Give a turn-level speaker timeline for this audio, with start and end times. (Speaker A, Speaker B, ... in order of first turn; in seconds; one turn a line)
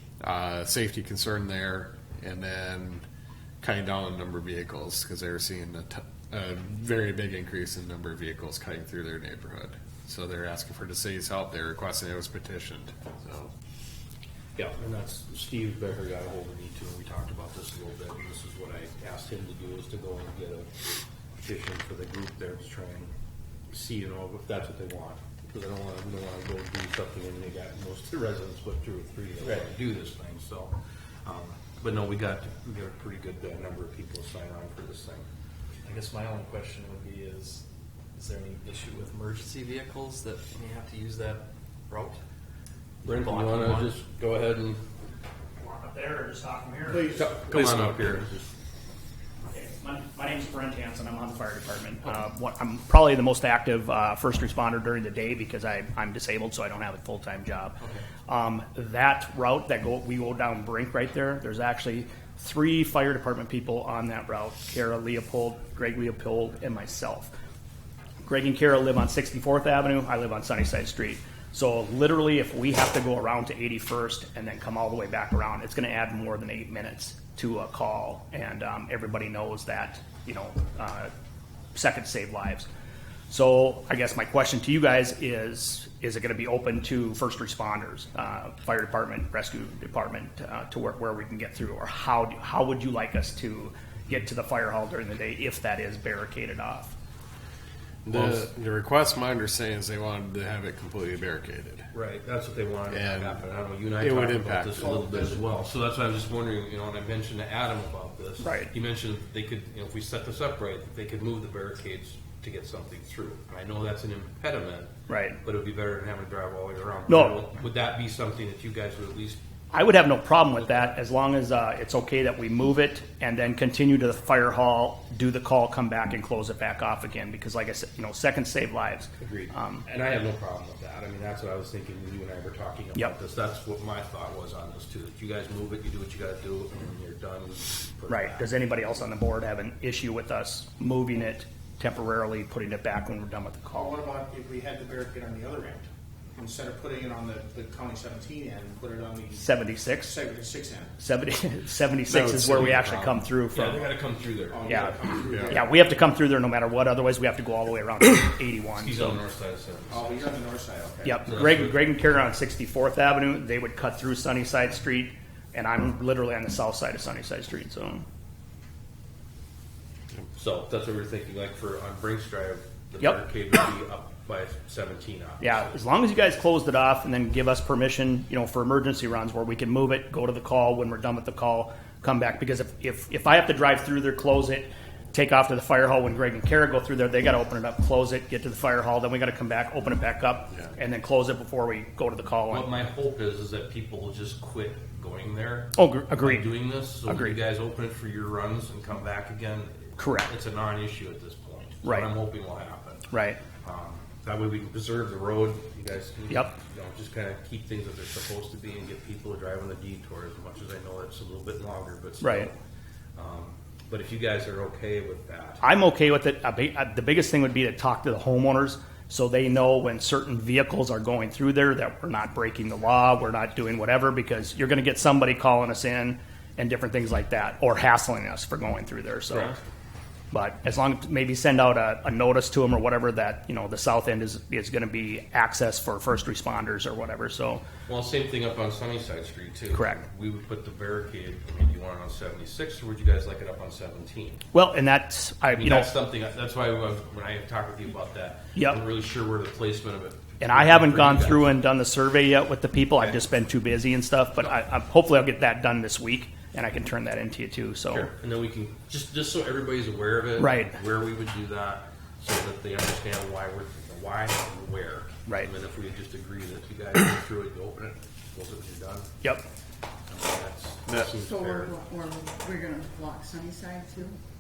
Speaker A: 0.2-3.0
Speaker A: 3.6-13.5
Speaker B: 14.6-20.8
Speaker B: 21.4-23.1
Speaker B: 23.7-35.2
Speaker C: 35.8-37.6
Speaker C: 38.2-42.2
Speaker C: 43.0-43.9
Speaker B: 43.0-44.8
Speaker D: 45.6-47.2
Speaker B: 47.1-48.5
Speaker D: 49.5-67.3
Speaker D: 68.2-81.1
Speaker D: 81.8-82.7
Speaker D: 83.3-96.9
Speaker A: 98.0-101.9
Speaker B: 98.1-98.4
Speaker B: 101.9-114.9
Speaker A: 102.9-103.4
Speaker A: 104.0-105.1
Speaker D: 108.4-108.7
Speaker D: 115.1-115.4
Speaker B: 115.4-119.4
Speaker D: 117.1-117.4
Speaker D: 119.7-129.8
Speaker B: 129.2-138.5
Speaker D: 138.1-143.9
Speaker E: 143.7-149.5
Speaker D: 149.3-150.2
Speaker E: 150.0-150.9
Speaker D: 151.0-153.9
Speaker A: 152.1-152.7
Speaker B: 152.3-154.7
Speaker E: 154.5-155.7
Speaker D: 154.6-154.9
Speaker D: 155.5-159.2
Speaker B: 158.7-160.2
Speaker E: 159.9-161.3
Speaker D: 161.0-168.0
Speaker B: 161.2-161.8
Speaker B: 170.3-175.7
Speaker D: 175.4-192.7
Speaker B: 192.5-203.1
Speaker D: 195.7-197.3
Speaker D: 200.0-200.3
Speaker D: 201.8-202.1
Speaker D: 203.1-203.4
Speaker B: 203.6-212.6
Speaker D: 212.2-212.5
Speaker B: 213.2-215.6
Speaker D: 215.6-229.6
Speaker B: 229.3-229.6
Speaker D: 230.3-237.6
Speaker B: 237.9-244.4
Speaker D: 239.7-240.0
Speaker D: 244.5-245.9
Speaker B: 245.5-251.5
Speaker D: 248.5-248.8
Speaker D: 250.4-258.1
Speaker B: 257.9-269.1
Speaker D: 260.4-260.7
Speaker B: 270.1-271.8
Speaker F: 271.1-274.2